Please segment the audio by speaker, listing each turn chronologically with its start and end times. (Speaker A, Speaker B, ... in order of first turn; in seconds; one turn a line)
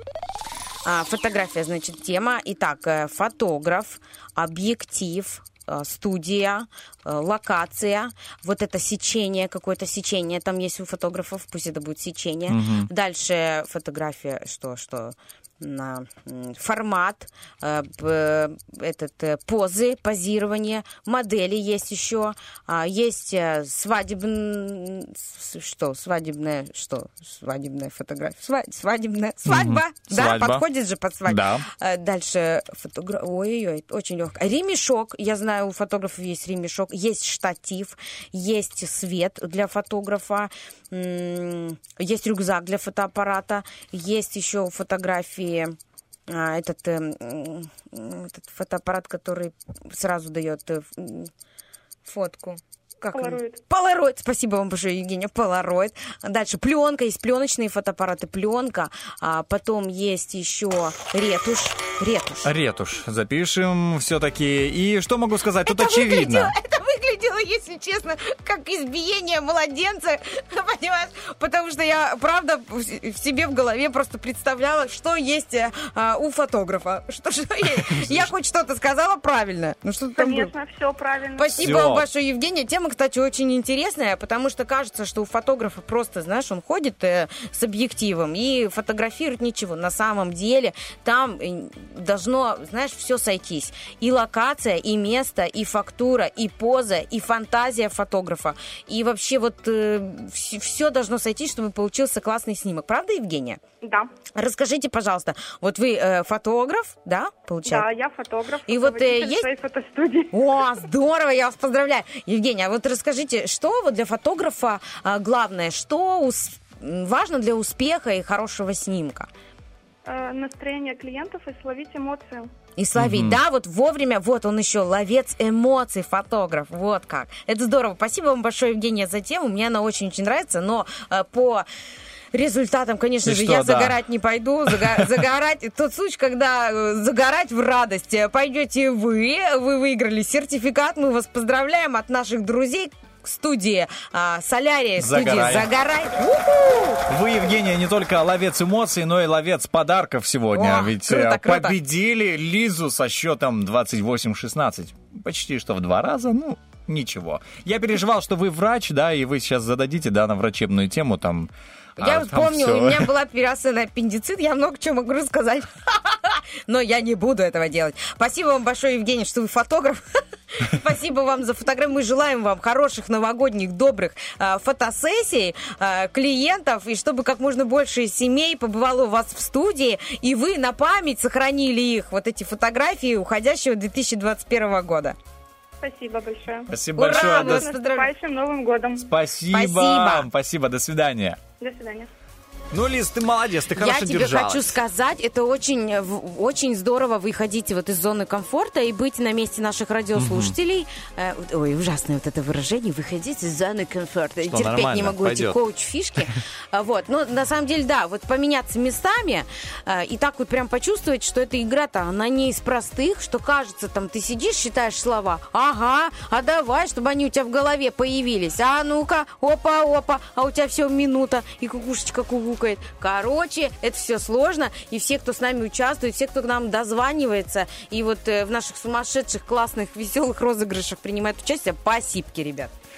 Speaker A: 0.8-45.8
Speaker B: 12.5-12.9
Speaker B: 29.5-30.6
Speaker B: 31.2-31.7
Speaker A: 46.3-51.3
Speaker A: 52.0-62.5
Speaker C: 53.1-53.6
Speaker B: 62.4-66.5
Speaker A: 65.6-80.5
Speaker B: 77.8-78.3
Speaker C: 80.2-81.8
Speaker A: 81.4-103.6
Speaker B: 81.6-82.1
Speaker C: 103.8-104.1
Speaker A: 104.3-107.9
Speaker C: 107.7-110.8
Speaker A: 108.7-109.5
Speaker A: 110.3-119.3
Speaker C: 120.0-122.5
Speaker A: 122.8-131.7
Speaker B: 123.0-123.4
Speaker A: 132.3-147.0
Speaker B: 133.2-134.0
Speaker B: 134.7-135.1
Speaker B: 145.0-145.7
Speaker B: 147.1-163.1
Speaker A: 150.5-151.8
Speaker A: 162.0-185.2
Speaker C: 185.8-189.1
Speaker B: 186.7-187.7
Speaker A: 187.0-188.1
Speaker B: 189.1-191.4
Speaker A: 189.5-190.3
Speaker C: 191.6-192.1
Speaker B: 192.7-194.7
Speaker A: 193.8-232.7
Speaker B: 200.1-200.5
Speaker B: 204.4-205.6